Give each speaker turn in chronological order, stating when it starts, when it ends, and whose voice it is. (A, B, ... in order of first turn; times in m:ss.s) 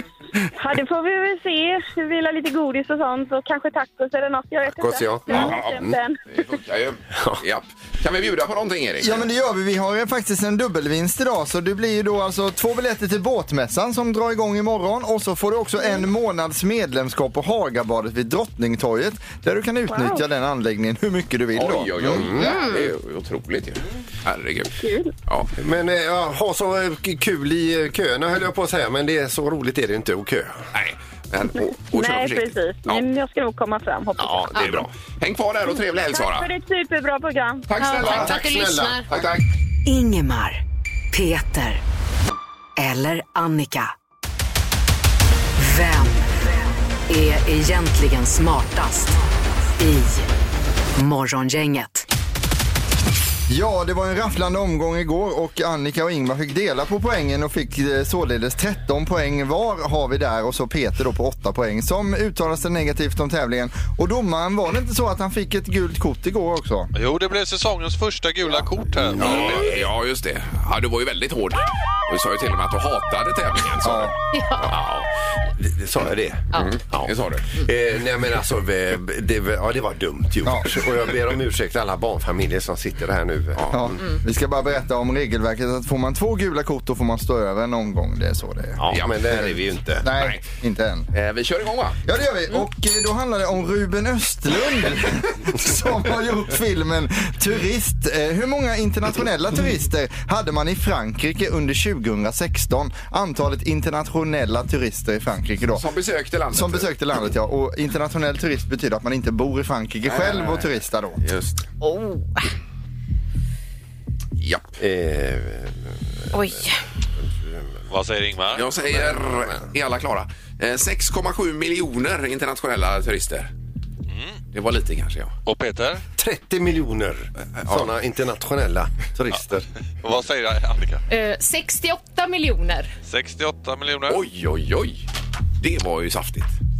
0:00.6-0:06.2 A
0:04.6-0:06.0 B
0:06.3-0:09.2 C
0:07.2-0:07.4 B
0:09.0-0:22.3 D
0:19.9-0:20.2 A
0:21.5-0:24.8 C
0:22.0-0:22.5 B
0:22.4-0:22.9 E
0:24.8-0:25.1 A
0:25.6-0:30.6 B
0:30.7-0:33.0 C
0:31.8-0:34.5 A
0:34.2-0:34.9 B
0:34.6-0:36.5 C
0:36.1-0:37.6 A
0:37.7-0:38.5 C
0:37.8-0:39.1 E
0:38.0-0:39.2 B
0:39.1-0:39.4 C
0:39.8-0:40.6 F
0:41.1-0:41.8 F
0:42.8-0:43.9 F
0:45.6-0:46.5 F
0:47.1-0:50.3 F
0:51.0-0:52.1 F
0:53.5-1:06.9 D
1:06.9-1:09.7 G
1:09.1-1:14.7 C
1:13.8-1:14.1 D
1:14.3-1:14.7 E
1:14.7-1:24.0 B
1:16.5-1:17.5 C
1:20.4-1:20.8 D
1:23.7-1:29.5 D
1:28.8-1:30.0 B
1:28.9-1:29.4 C
1:30.0-1:31.1 D
1:30.0-1:30.4 C
1:31.1-1:32.0 C
1:32.0-1:45.9 D
1:45.7-1:46.9 C
1:46.5-1:51.2 D
1:50.0-1:50.7 C
1:51.2-1:51.6 C
1:51.8-1:52.5 E
1:54.4-1:54.8 C
1:54.8-1:56.0 B
1:56.3-1:56.8 E
1:57.2-1:57.8 B
1:57.9-1:58.7 G
1:58.5-2:03.5 C
1:58.9-1:59.6 B
2:04.1-2:04.4 G
2:04.5-2:05.3 C
2:05.4-2:06.0 G
2:06.2-2:09.6 B
2:07.6-2:07.9 C
2:10.0-2:11.0 G
2:11.1-2:12.9 E
2:13.1-2:14.2 G
2:14.1-2:15.0 C
2:15.6-2:16.6 C